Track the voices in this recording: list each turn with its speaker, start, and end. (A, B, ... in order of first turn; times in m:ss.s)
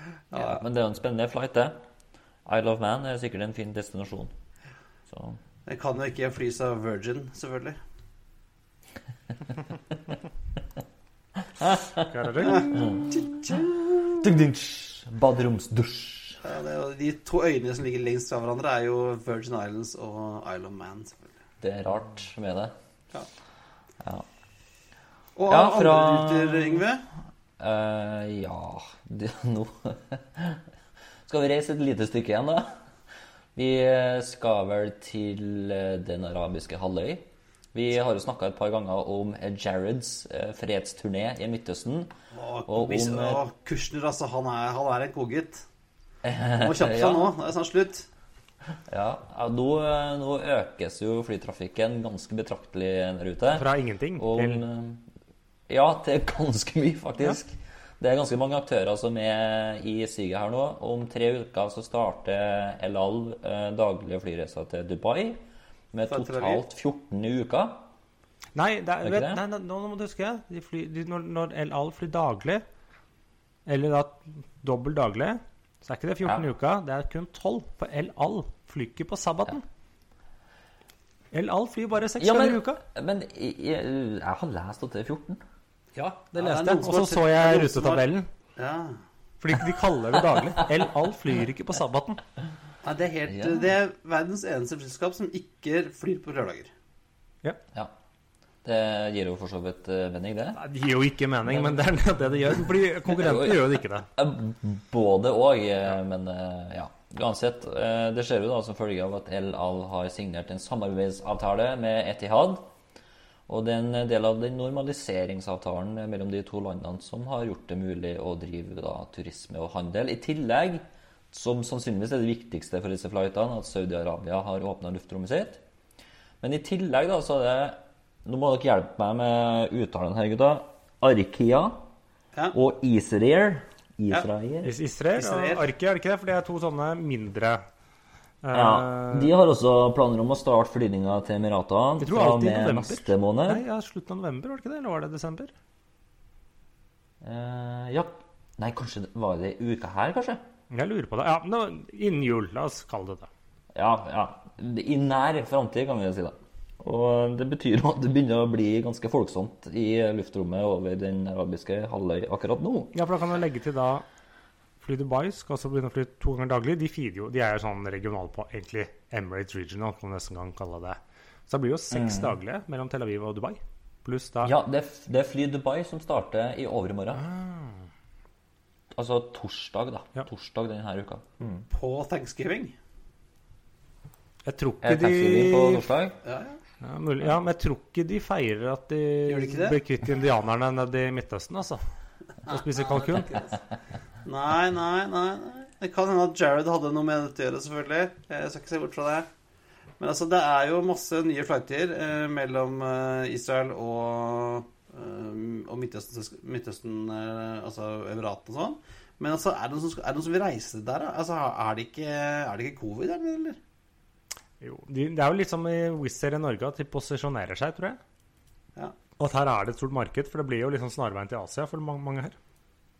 0:00.3-0:00.6 A
0:00.4-0:01.8 B
0:02.5-0:04.3 B
0:05.1-0:05.4 B
0:05.7-0:07.8 A
0:11.6-0:16.4 B
0:12.1-0:12.9 C
0:12.4-0:13.6 A
0:16.4-0:21.3 A
0:21.6-0:22.8 B
0:24.0-0:24.3 B
0:25.4-0:27.0 A
0:25.5-0:26.8 B
0:27.6-0:30.7 B
0:31.3-0:32.8 B
0:33.6-0:42.1 B
0:42.3-0:45.6 A
0:42.7-0:43.4 B
0:46.2-0:47.3 B
0:46.6-0:48.1 A
0:48.9-0:53.7 B
0:53.5-0:54.6 C
0:54.2-0:55.1 B
0:55.7-1:05.4 B
1:05.9-1:07.9 B
1:06.1-1:06.6 A
1:08.6-1:12.6 C
1:09.0-1:09.4 B
1:13.7-1:19.6 C
1:21.3-1:22.8 C
1:22.2-1:25.4 B
1:26.0-1:28.3 C
1:26.0-1:29.0 A
1:29.4-1:32.2 C
1:32.8-1:36.7 A
1:33.3-1:33.7 B
1:38.6-1:40.6 B
1:40.6-1:44.1 C
1:43.1-1:52.7 B
1:53.5-2:05.6 B
2:06.4-2:11.9 B
2:12.5-2:14.8 B
2:14.6-2:17.6 C
2:15.2-2:15.7 A
2:18.4-2:19.3 C
2:18.5-2:23.6 B
2:22.0-2:25.5 C
2:27.2-2:30.4 B
2:30.7-2:33.3 C
2:33.7-2:43.0 B
2:42.9-2:44.0 C
2:44.8-2:54.6 C
2:51.9-2:52.4 B
2:54.4-2:57.3 B
2:57.2-2:57.8 C
2:58.9-3:01.6 B
3:01.7-3:02.8 A
3:04.4-3:05.9 C
3:04.8-3:06.2 B
3:06.2-3:06.6 A
3:06.8-3:11.8 C
3:09.3-3:09.8 A
3:12.5-3:13.4 C
3:12.5-3:13.5 A
3:14.2-3:19.3 A
3:20.0-3:33.6 A
3:34.6-3:38.0 C
3:39.2-3:42.4 C